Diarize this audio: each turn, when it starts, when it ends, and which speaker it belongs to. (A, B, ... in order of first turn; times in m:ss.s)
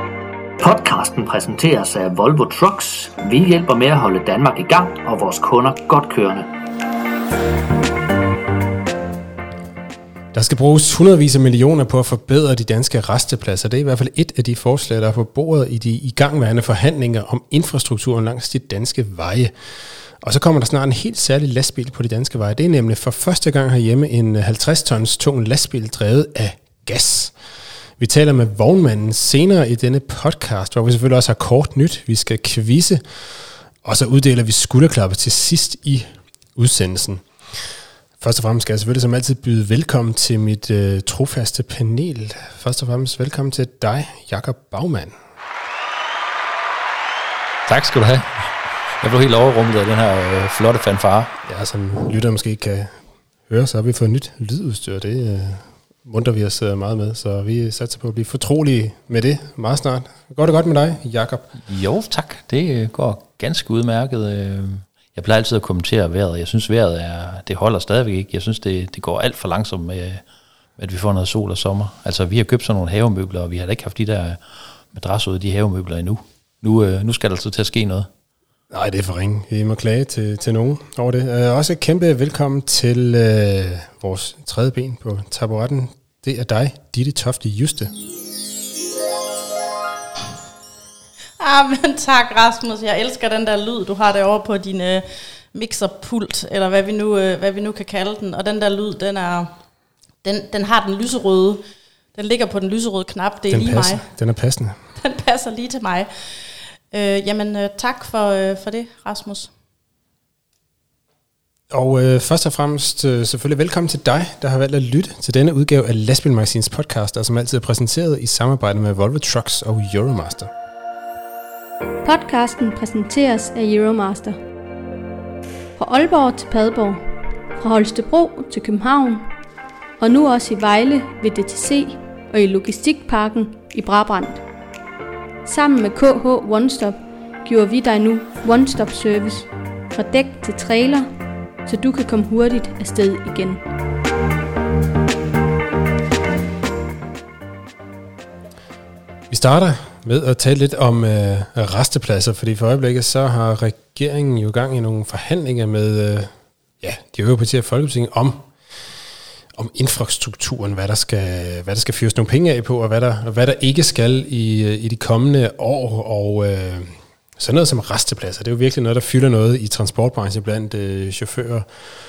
0:00.6-0:06.5 A
0:10.3-0:19.5 B
0:20.2-0:27.3 B
0:28.0-0:33.0 B
0:33.8-0:37.2 B
0:38.2-0:45.1 B
0:47.7-0:51.3 C
0:51.4-0:53.0 B
0:53.5-1:01.5 B
1:01.6-1:10.2 C
1:10.8-1:14.4 C
1:14.9-1:18.1 C
1:18.7-1:27.9 B
1:31.4-1:39.5 D
1:40.2-1:41.6 D
1:42.1-1:44.0 D
1:43.5-1:44.8 B
1:45.0-1:46.1 D
1:46.9-1:49.5 D
1:51.7-2:00.5 B
2:02.0-2:04.4 E
2:05.8-2:07.0 E
2:07.6-2:09.3 E
2:10.0-2:14.4 E
2:15.4-2:21.1 E
2:21.6-2:23.6 E
2:29.3-2:36.3 B
2:36.8-2:38.5 B
2:39.5-2:51.7 B